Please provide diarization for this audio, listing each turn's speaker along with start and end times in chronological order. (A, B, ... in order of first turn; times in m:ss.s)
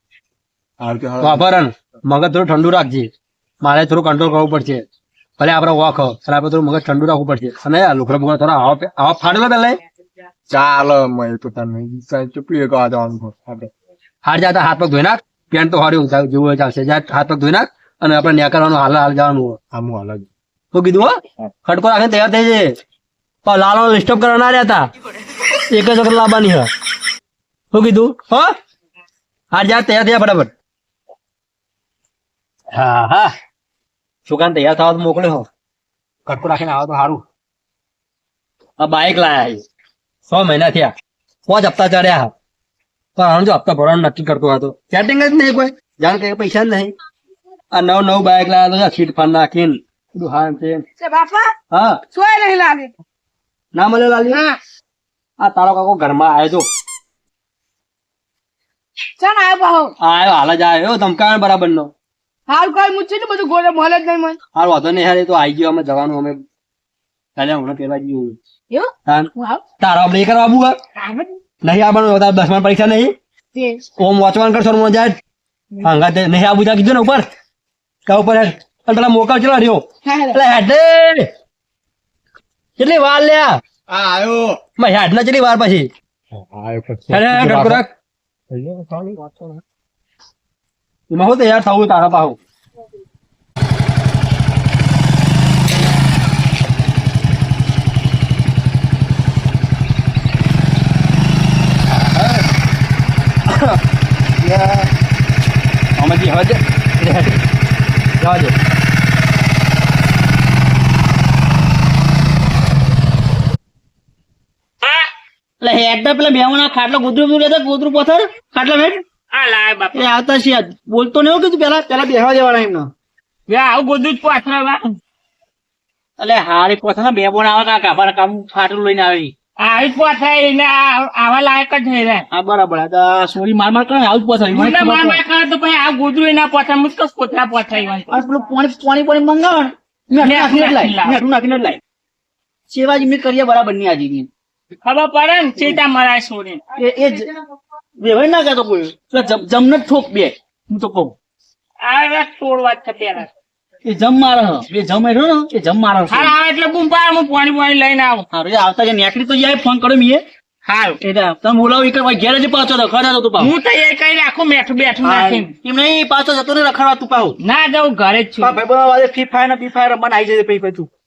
0:00.8-0:01.5 A
0:01.2-0:03.1 B
0:03.6-0:04.8 B
0:05.4-0:09.8 B
0:10.5-0:13.7 A
0:14.2-0:19.6 B
0:19.7-0:20.3 A
0:20.7-0:22.7 B
0:23.4-0:24.8 B
0:25.7-0:26.7 B
0:27.7-0:28.5 B
0:29.5-0:30.5 B
0:32.7-0:33.3 B
0:34.3-0:35.5 B
0:36.3-0:37.2 B
0:38.8-0:39.6 B
0:40.3-0:40.9 B
0:41.5-0:42.3 B
0:43.2-0:46.9 B
0:47.7-0:50.8 B
0:51.0-0:51.5 C
0:51.7-0:52.0 B
0:52.1-0:53.0 C
0:53.8-0:54.4 B
0:54.3-0:54.6 C
0:55.4-0:56.7 B
0:59.2-0:59.9 C
1:00.0-1:01.9 B
1:02.5-1:04.4 C
1:04.6-1:06.4 B
1:07.4-1:08.4 B
1:08.7-1:09.6 C
1:09.1-1:10.8 B
1:11.0-1:11.3 C
1:11.6-1:13.2 B
1:13.5-1:13.9 C
1:14.0-1:15.2 B
1:15.8-1:17.2 B
1:18.1-1:21.3 B
1:20.1-1:20.4 C
1:22.8-1:23.5 B
1:23.9-1:24.6 A
1:24.8-1:25.9 B
1:26.3-1:27.8 A
1:27.1-1:27.9 B
1:28.5-1:29.6 A
1:31.1-1:32.4 B
1:41.9-1:42.4 B
1:43.5-1:43.8 B
1:44.4-1:44.9 B
1:46.0-1:47.4 B
1:48.2-1:48.5 B
1:54.8-1:55.1 D
1:55.6-1:59.0 E
1:59.3-2:00.0 D
1:59.9-2:02.9 E
2:03.5-2:04.9 D
2:06.2-2:09.3 E
2:09.6-2:12.3 D
2:12.3-2:15.2 E
2:14.5-2:18.1 D
2:18.1-2:21.8 E
2:20.2-2:21.2 D
2:22.7-2:24.3 E
2:24.8-2:26.6 D
2:26.8-2:27.4 E
2:28.0-2:31.2 E
2:31.8-2:33.3 D
2:33.8-2:36.4 E
2:36.1-2:38.3 D
2:38.3-2:40.2 E
2:40.7-2:41.0 D
2:41.0-2:43.5 E
2:43.4-2:45.5 D
2:45.0-2:47.4 E
2:47.4-2:48.6 D
2:48.4-2:50.9 E